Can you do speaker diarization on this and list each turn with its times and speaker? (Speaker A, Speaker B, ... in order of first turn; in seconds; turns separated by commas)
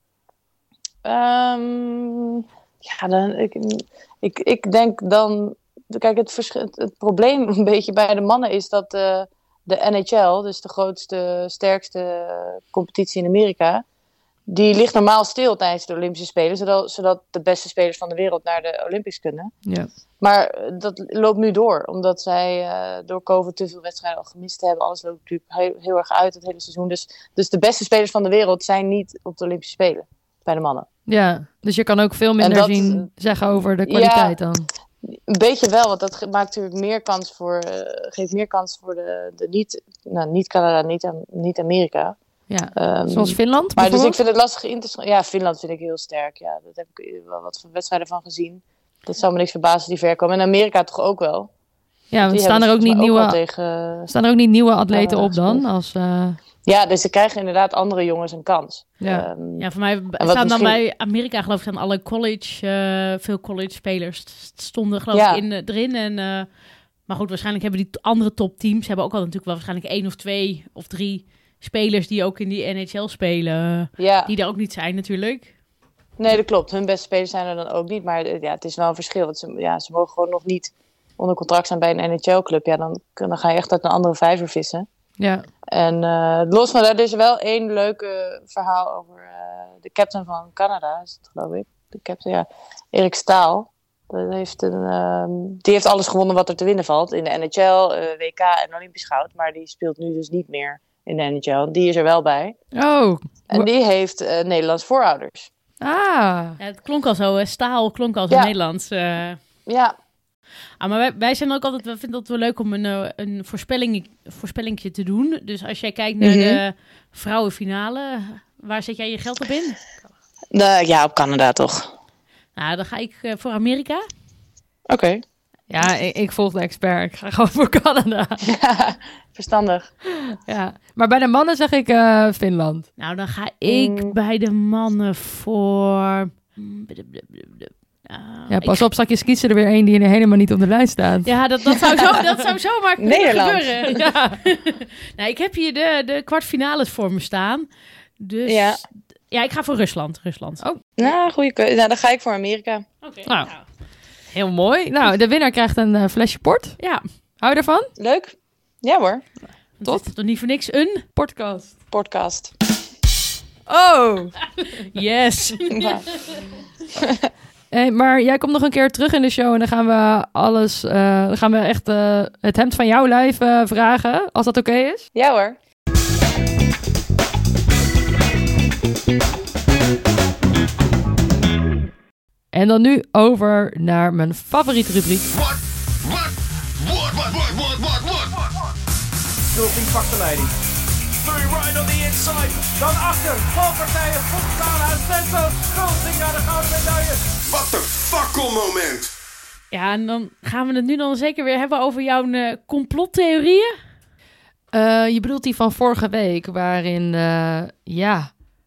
Speaker A: 1.0-13.8, Speaker A: 14.5-19.6, Speaker A: 20.2-30.9, Speaker B: 31.1-34.7, Speaker A: 32.4-33.1, Speaker A: 33.9-34.4, Speaker A: 35.3-42.2, Speaker B: 42.5-44.2, Speaker A: 42.8-51.5, Speaker B: 52.1-53.4, Speaker A: 52.2-54.1, Speaker B: 54.1-56.4, Speaker A: 54.9-55.7, Speaker A: 56.6-59.7, Speaker C: 59.6-75.5, Speaker A: 60.2-60.8, Speaker A: 65.1-65.4, Speaker A: 74.0-74.3, Speaker A: 76.2-84.9, Speaker B: 85.2-85.5, Speaker A: 85.7-102.6, Speaker B: 102.7-103.7, Speaker A: 103.5-105.5, Speaker B: 105.8-106.6, Speaker C: 106.6-109.4, Speaker A: 109.7-109.9, Speaker C: 110.8-119.8, Speaker A: 116.2-116.6, Speaker A: 120.5-121.9, Speaker C: 122.6-124.0, Speaker A: 124.9-125.2, Speaker B: 125.7-128.6, Speaker A: 128.5-129.9, Speaker B: 130.2-132.9, Speaker C: 133.0-138.9, Speaker A: 133.7-134.2, Speaker B: 138.5-141.3, Speaker C: 141.2-150.6, Speaker A: 143.0-143.8, Speaker B: 144.0-144.4, Speaker A: 148.5-148.8, Speaker A: 151.0-152.8, Speaker C: 153.0-153.7, Speaker B: 153.3-153.5, Speaker B: 154.2-156.8, Speaker B: 157.4-157.9, Speaker A: 158.0-159.3, Speaker C: 159.8-161.1, Speaker B: 159.8-160.1, Speaker B: 161.2-161.8, Speaker A: 161.9-162.5, Speaker B: 163.7-164.5, Speaker C: 164.9-166.0, Speaker A: 165.7-166.0, Speaker B: 167.7-175.1, Speaker A: 175.2-175.6, Speaker B: 182.5-185.3, Speaker D: 185.3-188.5, Speaker E: 189.5-190.5, Speaker E: 191.2-197.3, Speaker D: 197.4-199.1, Speaker C: 199.7-203.7, Speaker B: 204.7-208.3